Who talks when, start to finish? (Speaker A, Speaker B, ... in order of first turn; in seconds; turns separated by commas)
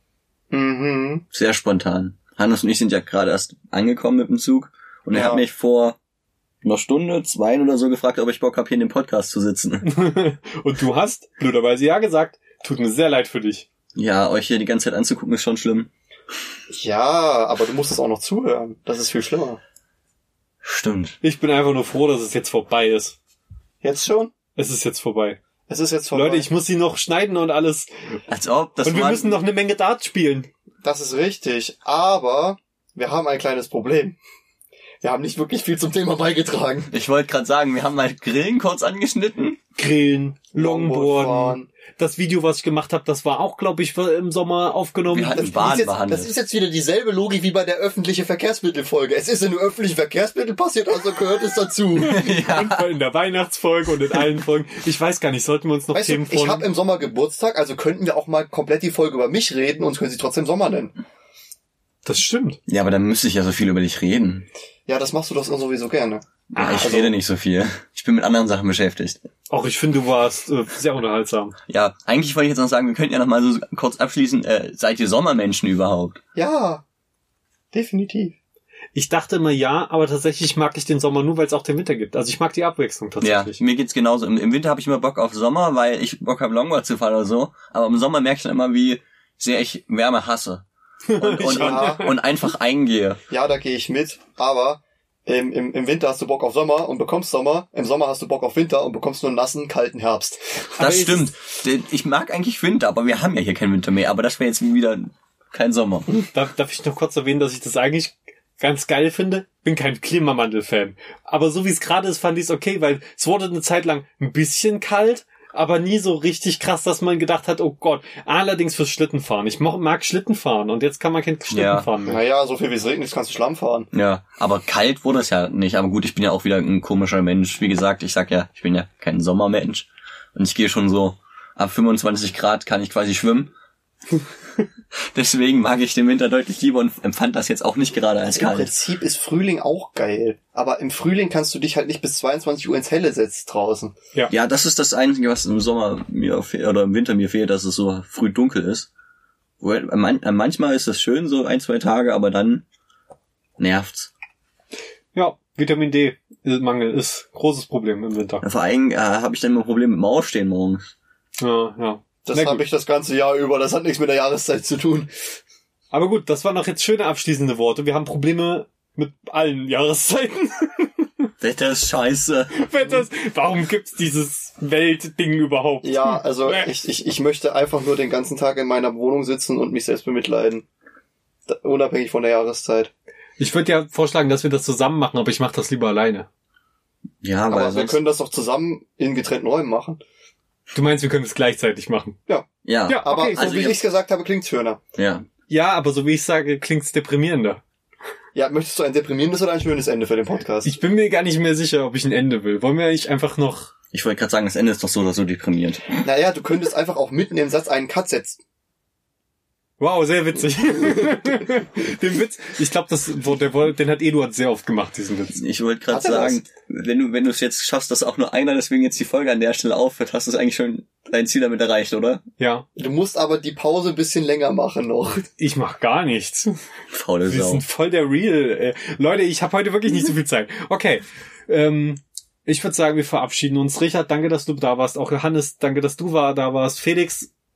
Speaker A: 0.5-1.2, Speaker B: 1.3-6.0, Speaker A: 5.1-5.4, Speaker B: 6.6-9.8, Speaker C: 9.8-13.7, Speaker B: 13.9-15.9, Speaker A: 16.7-19.6, Speaker B: 20.6-21.2, Speaker C: 21.2-23.2, Speaker A: 23.8-24.3, Speaker C: 24.6-25.4, Speaker A: 25.7-26.5, Speaker C: 26.1-27.9, Speaker B: 28.3-29.4, Speaker C: 28.8-30.5, Speaker A: 30.8-34.2, Speaker A: 35.0-36.9, Speaker B: 36.9-39.6, Speaker C: 39.8-45.4, Speaker A: 40.5-41.7, Speaker B: 45.1-46.3, Speaker A: 45.3-52.2, Speaker C: 52.0-56.6, Speaker B: 52.0-52.9, Speaker A: 55.9-61.0, Speaker C: 62.0-62.6, Speaker B: 62.7-64.5, Speaker A: 64.9-66.2, Speaker C: 66.5-67.0, Speaker B: 66.5-69.2, Speaker A: 66.8-67.1, Speaker C: 69.5-71.5, Speaker B: 71.7-76.2, Speaker A: 76.3-76.8, Speaker A: 77.7-78.3, Speaker C: 78.9-83.6, Speaker B: 83.2-90.6, Speaker C: 91.1-92.1, Speaker B: 91.2-93.2, Speaker A: 91.4-92.1, Speaker A: 93.3-100.4, Speaker C: 100.8-101.3, Speaker B: 100.8-106.1, Speaker C: 106.3-122.2, Speaker B: 121.5-121.9, Speaker A: 122.0-123.9, Speaker B: 123.9-133.5, Speaker B: 135.1-138.7, Speaker A: 138.3-143.9, Speaker B: 144.3-148.9, Speaker B: 149.6-152.6, Speaker B: 153.6-154.1, Speaker C: 155.1-158.4, Speaker B: 158.4-160.9, Speaker C: 161.4-162.6, Speaker A: 162.2-165.1, Speaker C: 165.9-171.3, Speaker B: 171.4-172.5, Speaker C: 172.5-176.7, Speaker A: 175.8-180.6, Speaker A: 181.5-182.9, Speaker C: 183.4-186.3, Speaker B: 187.2-188.0, Speaker A: 187.5-190.0, Speaker C: 190.7-192.2, Speaker B: 192.6-193.8, Speaker C: 192.9-193.4, Speaker A: 193.0-194.8, Speaker B: 194.9-195.2, Speaker C: 195.5-197.6, Speaker A: 198.3-200.7, Speaker C: 200.6-203.7, Speaker B: 203.9-206.0, Speaker A: 206.0-208.4, Speaker C: 209.8-215.4, Speaker B: 215.3-222.2, Speaker A: 215.9-216.4, Speaker C: 222.4-222.7, Speaker A: 222.8-225.3, Speaker C: 225.4-226.6, Speaker B: 226.9-227.6, Speaker C: 227.3-237.3